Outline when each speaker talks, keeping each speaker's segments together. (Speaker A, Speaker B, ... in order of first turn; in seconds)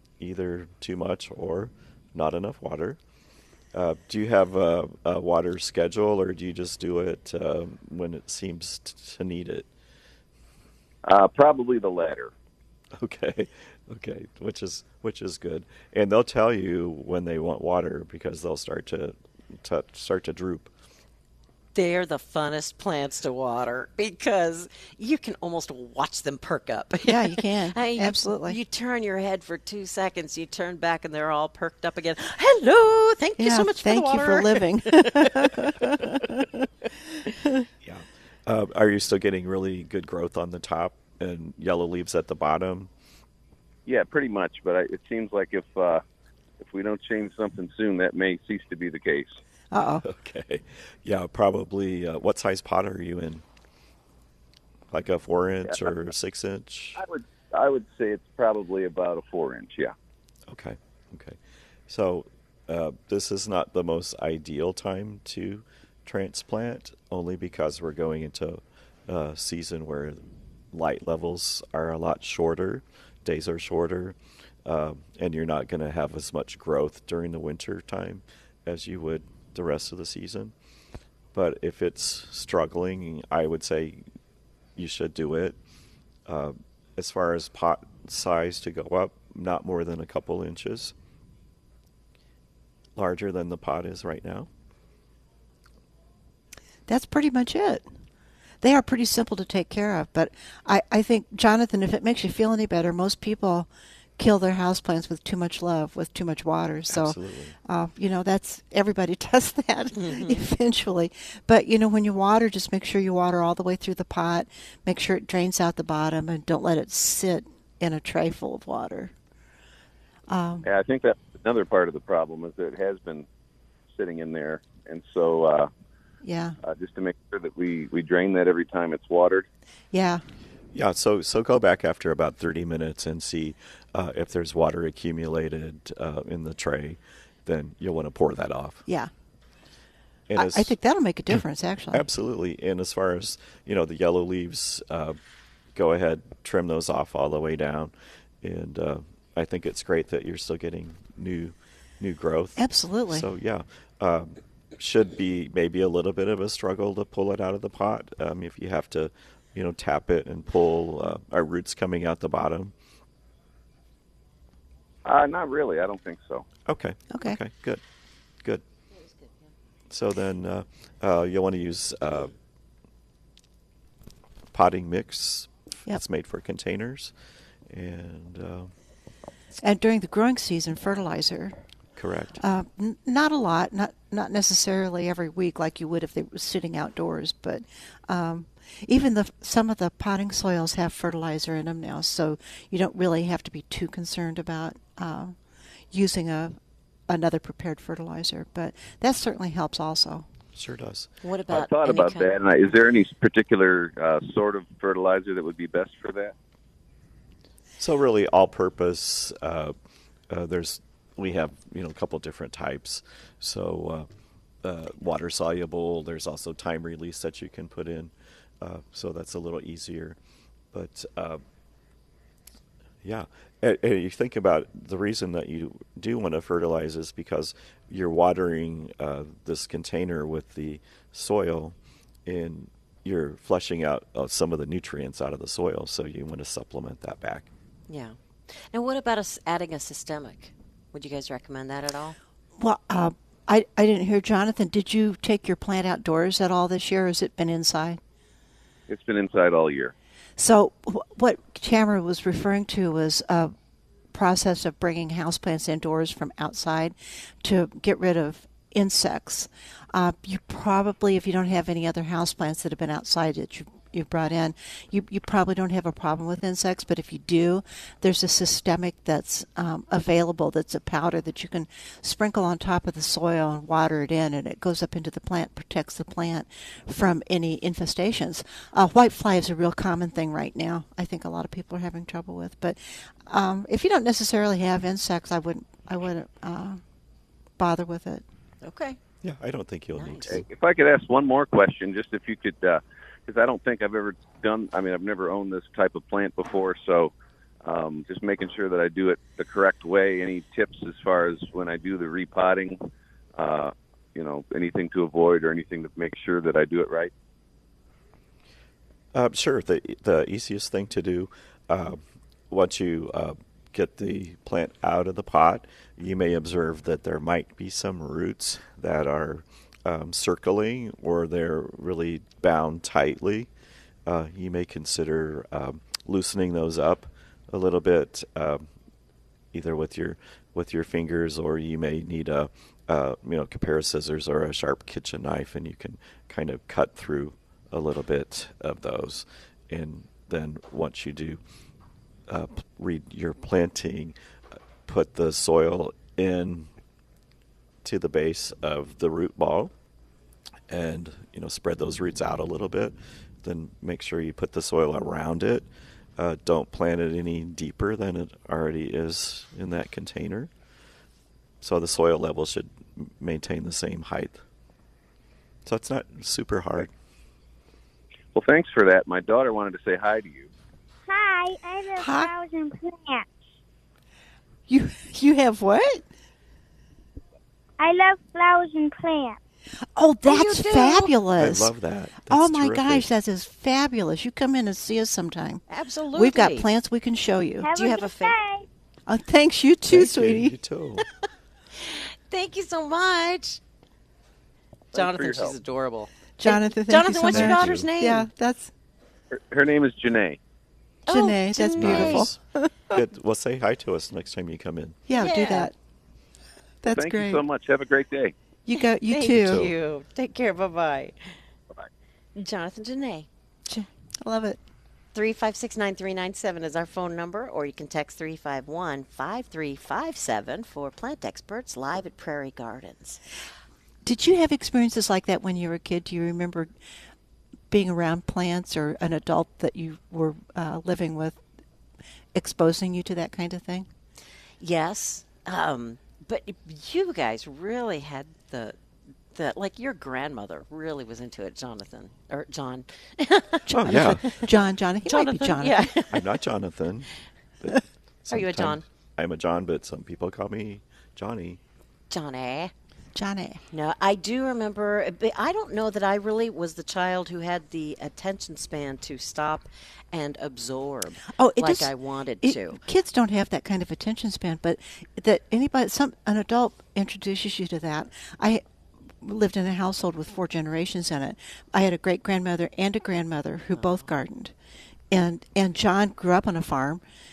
Speaker A: 0.2-3.0, 3.7-9.7, 12.9-20.7, 37.8-42.9, 50.0-53.4, 54.9-57.0, 60.5-80.5, 81.3-84.0, 84.8-85.6, 86.2-90.9, 93.0-94.5, 106.9-107.5, 130.7-138.8, 140.3-140.7, 141.3-145.2, 145.7-162.7, 166.7-167.8, 169.9-172.3, 174.5-177.1, 177.7-178.7, 182.0-182.4, 200.5-201.1, 207.8-209.7, 210.3-214.1, 214.6-220.2, 220.7-221.4, 223.0-237.5, 289.2-290.4, 309.1-323.5, 324.1-328.7, 329.5-341.4, 342.3-344.1, 344.8-346.7, 347.8-349.7, 350.7-360.5, 361.6-364.4, 365.6-366.9, 381.4-383.1, 389.9-391.0, 397.3-397.9, 401.8-402.4, 402.9-405.0, 409.3-409.7, 443.7-444.4, 446.1-447.1, 447.6-451.6
Speaker B: 11.0-12.3, 43.9-46.0, 46.6-49.4, 56.9-59.9, 120.6-123.3, 123.9-125.7, 126.6-129.4, 165.0-166.5, 201.5-206.3, 248.9-249.9, 290.3-297.1, 297.6-302.8, 303.4-307.1, 368.3-370.5, 394.9-395.6, 399.3-400.4, 406.9-408.3
Speaker C: 21.7-35.7, 109.9-110.4, 201.2-202.3, 237.9-242.2, 288.6-289.0, 289.9-290.4, 380.2-381.1, 385.7-386.7, 387.7-388.4, 391.8-393.6, 394.9-398.3, 401.1-402.3, 405.1-405.7, 408.8-411.4, 412.4-413.3, 415.1-423.2, 434.6-438.8, 439.3-444.5, 445.0-446.2, 448.3-448.8, 452.1-452.7, 453.7-462.8, 473.7-474.1
Speaker D: 27.0-28.6, 33.4-36.7, 37.2-37.7, 49.7-50.0, 96.9-97.8, 98.6-119.1, 120.3-120.7, 126.2-126.6, 129.9-130.2, 140.3-142.1, 152.6-153.2, 167.1-167.4, 179.6-181.6, 182.4-195.3, 195.9-196.6, 197.1-200.2, 242.6-248.0, 250.4-253.5, 254.1-286.8, 287.6-288.2, 372.0-372.3, 374.7-376.0, 379.9-381.7, 382.3-387.7, 389.1-390.5, 396.4-398.7, 401.1-402.9, 405.1-405.7, 406.8-407.4, 408.6-409.7, 413.7-414.6, 424.0-426.7, 427.7-431.4, 432.3-433.9, 443.8-445.9, 453.1-453.6, 461.4-468.6, 469.2-474.5, 475.1-477.0
Speaker E: 371.1-373.3, 377.8-379.4, 387.6-388.6